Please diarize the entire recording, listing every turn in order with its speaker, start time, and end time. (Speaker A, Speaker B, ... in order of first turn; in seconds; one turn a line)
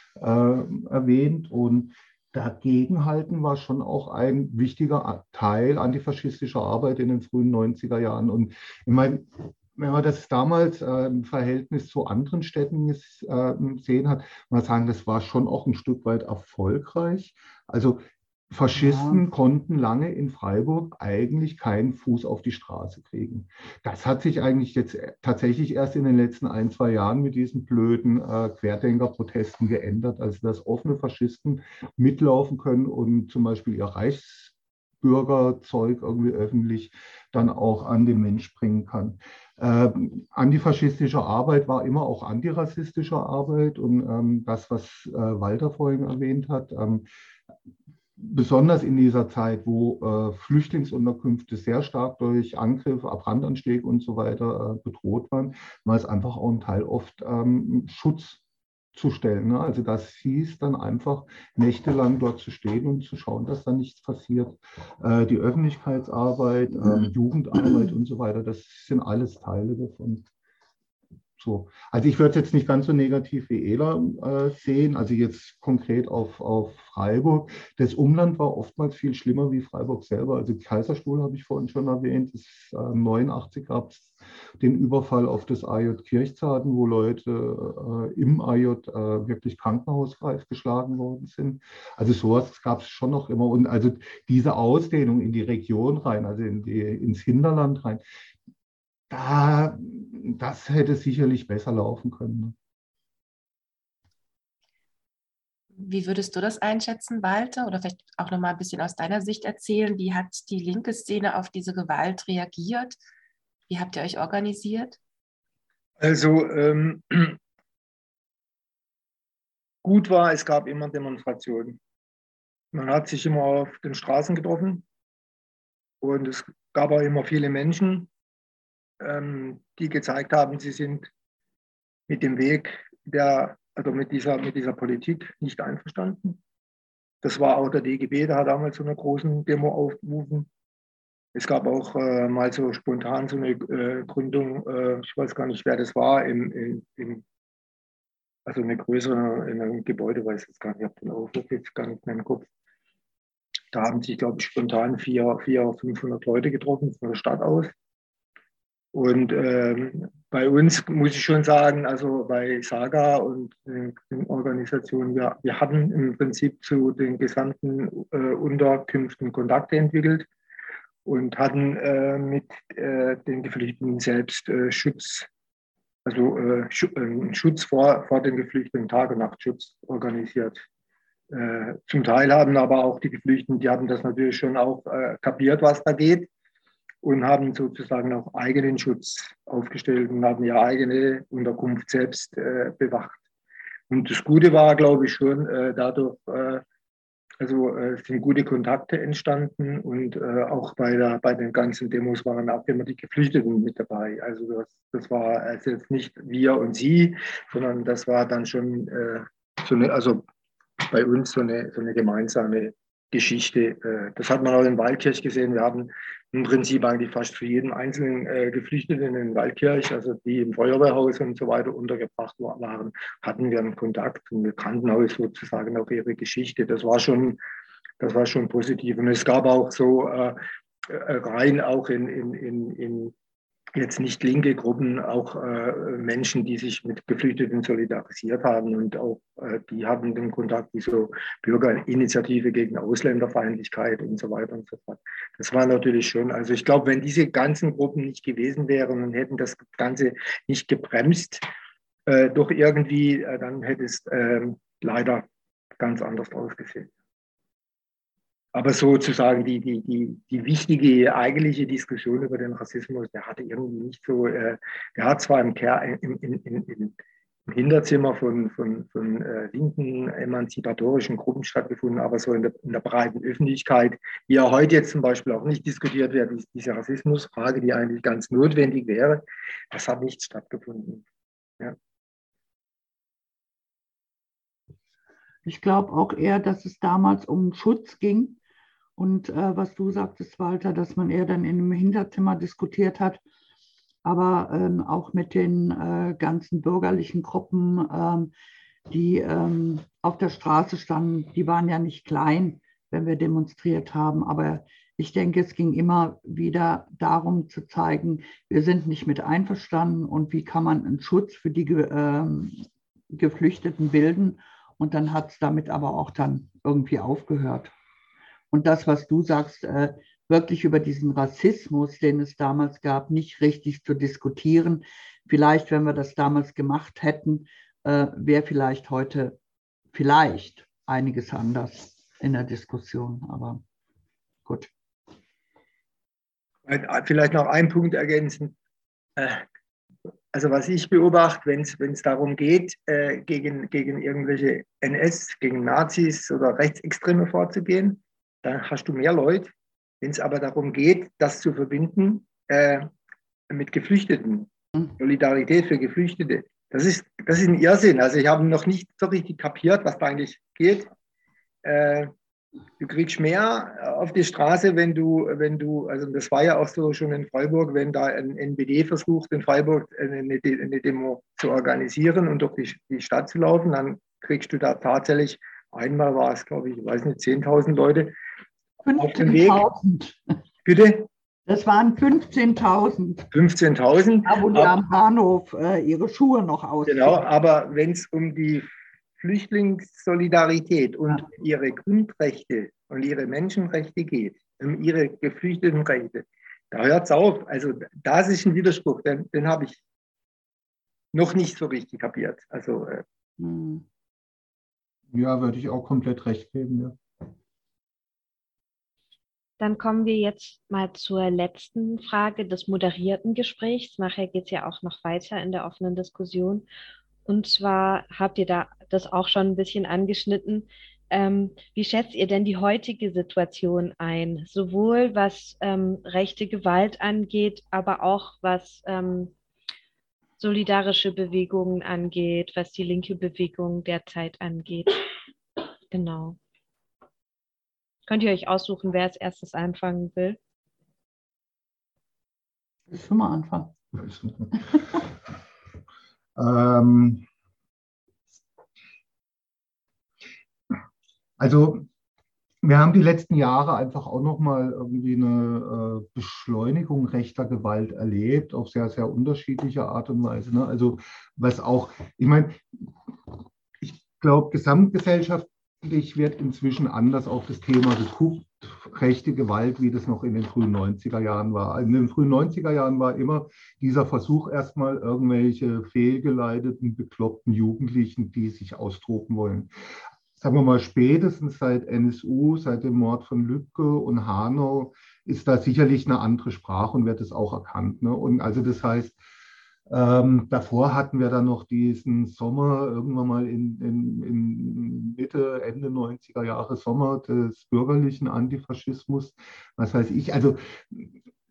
Speaker A: 0.2-47.0
Speaker B: 18.8-19.2
Speaker A: 48.2-58.4
Speaker A: 58.9-70.2
Speaker A: 71.4-98.0
Speaker A: 99.1-102.5
Speaker C: 105.8-113.0
Speaker C: 113.7-115.0
Speaker D: 116.0-117.4
Speaker D: 119.8-121.8
Speaker D: 122.7-124.8
Speaker D: 126.0-128.1
Speaker D: 129.0-131.1
Speaker D: 132.1-136.4
Speaker D: 137.2-140.5
Speaker D: 141.3-147.2
Speaker D: 148.4-152.5
Speaker D: 153.7-157.7
Speaker D: 158.9-170.3
Speaker D: 171.0-175.3
Speaker D: 176.0-180.6
Speaker D: 181.3-186.3
Speaker D: 187.0-193.2
Speaker D: 193.9-196.6
Speaker D: 197.4-210.2
Speaker D: 210.9-227.4
Speaker D: 228.0-233.1
Speaker D: 233.7-251.4
Speaker D: 252.1-255.2
Speaker D: 255.8-256.9
Speaker D: 258.5-266.9
Speaker D: 267.5-281.0
Speaker B: 285.4-288.4
Speaker B: 289.0-293.2
Speaker B: 294.0-298.3
Speaker B: 298.9-317.7
Speaker B: 318.5-329.4
Speaker B: 329.9-333.6
Speaker B: 334.4-334.7
Speaker D: 336.6-338.5
Speaker D: 339.2-339.4
Speaker D: 340.3-352.9
Speaker D: 353.5-360.9
Speaker D: 361.6-362.1
Speaker D: 362.8-378.1
Speaker B: 378.8-380.3
Speaker D: 379.0-379.6
Speaker D: 380.6-381.1
Speaker B: 381.5-383.3
Speaker D: 383.3-384.8
Speaker B: 384.2-387.2
Speaker D: 386.9-399.8
Speaker D: 401.1-403.0
Speaker B: 403.4-403.8
Speaker A: 405.1-407.0
Speaker E: 409.6-416.6
Speaker E: 417.2-429.3
Speaker E: 430.4-435.0
Speaker E: 435.9-436.4
Speaker E: 438.1-440.4
Speaker B: 442.9-443.7
Speaker A: 444.0-444.3
Speaker A: 446.4-447.2
Speaker A: 451.4-451.9
Speaker A: 452.6-462.9
Speaker A: 463.8-479.7
Speaker A: 480.4-489.2
Speaker A: 489.9-501.1